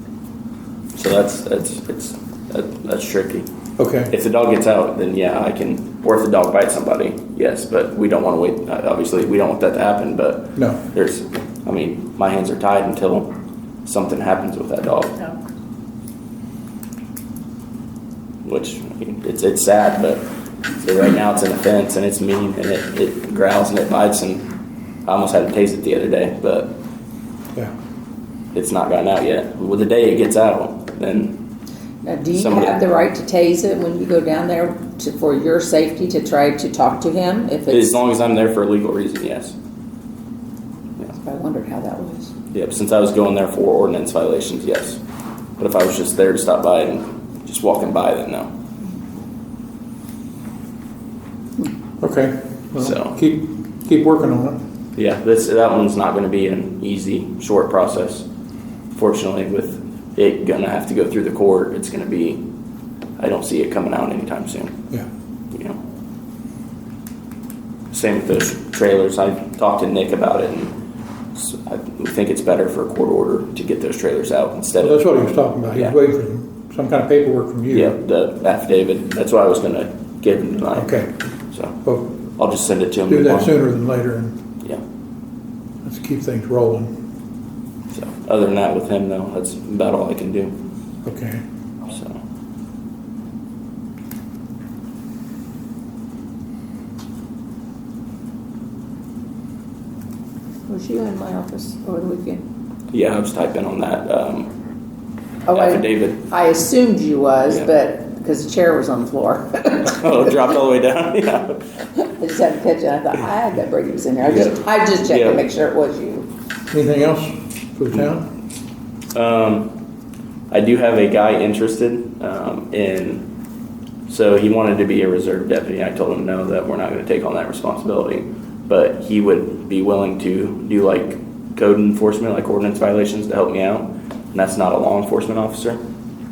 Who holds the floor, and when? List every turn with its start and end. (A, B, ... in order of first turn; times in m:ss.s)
0:01.0-0:03.5 A
0:03.8-0:04.1 B
0:04.1-0:13.3 A
0:10.6-0:10.8 B
0:13.8-0:15.3 A
0:18.4-0:20.3 A
0:20.8-0:24.5 A
0:25.0-0:26.8 A
0:28.5-0:31.5 A
0:32.0-0:38.0 C
0:32.3-0:32.8 A
0:37.7-0:39.5 A
0:41.1-0:42.3 C
0:42.5-0:45.0 A
0:45.6-0:48.5 A
0:52.0-0:54.6 B
0:52.8-0:53.2 A
0:54.9-0:58.3 A
0:58.9-1:02.4 A
1:03.2-1:04.8 A
1:05.5-1:05.8 A
1:07.9-1:10.7 A
1:11.3-1:16.0 A
1:14.8-1:18.0 B
1:17.7-1:23.5 A
1:20.7-1:21.1 B
1:23.1-1:24.4 B
1:25.8-1:26.9 B
1:27.9-1:30.6 A
1:31.0-1:31.4 B
1:31.8-1:32.2 A
1:40.7-1:42.4 C
1:42.9-1:44.5 A
1:45.5-1:50.1 C
1:45.5-1:46.3 A
1:49.8-1:51.6 A
1:52.2-1:56.3 C
1:54.2-1:55.4 A
1:56.7-1:58.3 B
1:59.1-1:59.7 A
2:00.5-2:03.3 A
2:04.1-2:15.8 A